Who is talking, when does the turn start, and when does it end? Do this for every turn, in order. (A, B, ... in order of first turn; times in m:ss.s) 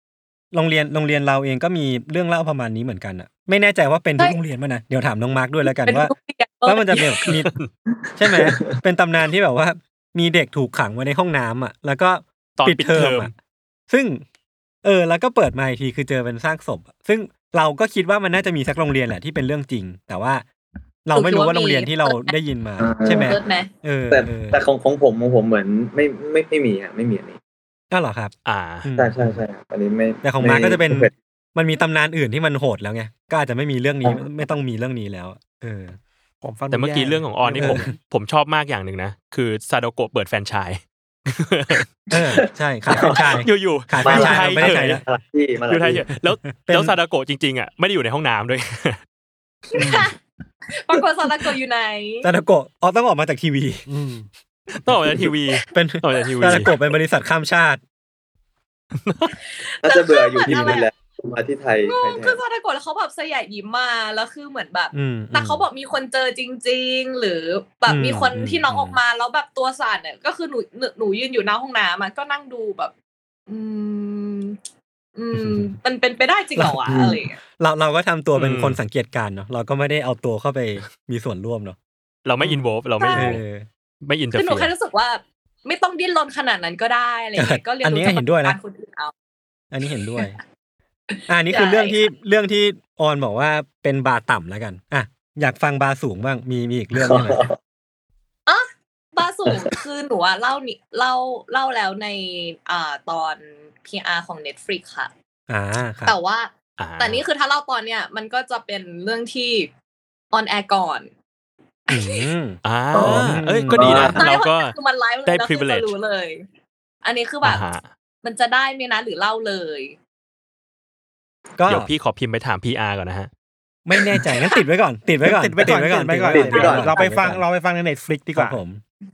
0:00.5-0:06.1 A
0:05.6-0:07.1 B
0:06.6-0:07.5 A
0:08.1-0:08.8 C
0:08.2-0:13.3 A
0:12.6-0:13.3 D
0:13.9-0:14.2 A
0:14.8-0:20.4 A
0:21.0-0:24.6 A
0:21.1-0:22.3 B
0:22.8-0:23.4 C
0:23.1-0:23.7 B
0:24.1-0:27.4 C
0:27.9-0:28.3 A
0:28.4-0:28.8 D
0:28.8-0:29.4 A
0:29.0-0:31.1 C
0:30.2-0:36.0 A
0:36.4-0:37.9 E
0:36.7-0:41.8 D
0:37.5-0:37.9 A
0:42.1-0:45.0 A
0:42.1-0:43.4 C
0:43.1-0:45.0 D
0:44.0-0:46.1 C
0:45.7-0:49.0 D
0:46.6-0:46.9 A
0:49.7-0:50.2 B
0:50.7-0:52.3 B
0:52.2-0:53.8 A
0:53.9-0:54.3 E
0:54.8-0:56.7 D
0:55.7-0:57.8 A
0:59.0-0:59.3 D
0:59.6-1:00.9 B
0:59.8-1:02.4 C
1:00.5-1:00.8 A
1:01.8-1:12.9 B
1:04.9-1:05.6 A
1:07.9-1:09.0 A
1:13.5-1:14.6 B
1:15.2-1:17.4 B
1:15.3-1:15.8 A
1:16.6-1:17.0 A
1:16.9-1:17.2 C
1:17.6-1:21.8 A
1:18.3-1:18.8 D
1:22.2-1:23.4 D
1:22.4-1:23.6 A
1:23.0-1:23.4 B
1:24.0-1:24.7 D
1:24.3-1:29.1 B
1:27.4-1:28.6 A
1:29.7-1:30.4 A
1:31.1-1:32.0 B
1:31.3-1:37.5 A
1:36.9-1:37.6 C
1:38.5-1:45.1 B
1:45.5-1:46.1 A
1:46.0-1:49.7 B
1:46.8-1:47.2 D
1:50.3-1:51.1 B
1:51.9-1:52.3 B
1:51.9-1:54.2 A
1:52.6-1:55.9 D
1:52.9-1:54.2 C
1:54.1-1:56.4 B
1:57.0-1:57.6 B
1:57.4-1:57.9 D
1:58.2-2:00.0 B
2:01.6-2:01.9 A
2:01.7-2:03.3 D
2:03.8-2:07.4 A
2:04.3-2:04.6 B
2:05.2-2:08.6 E
2:06.3-2:07.0 C
2:06.5-2:07.1 B
2:08.3-2:08.8 A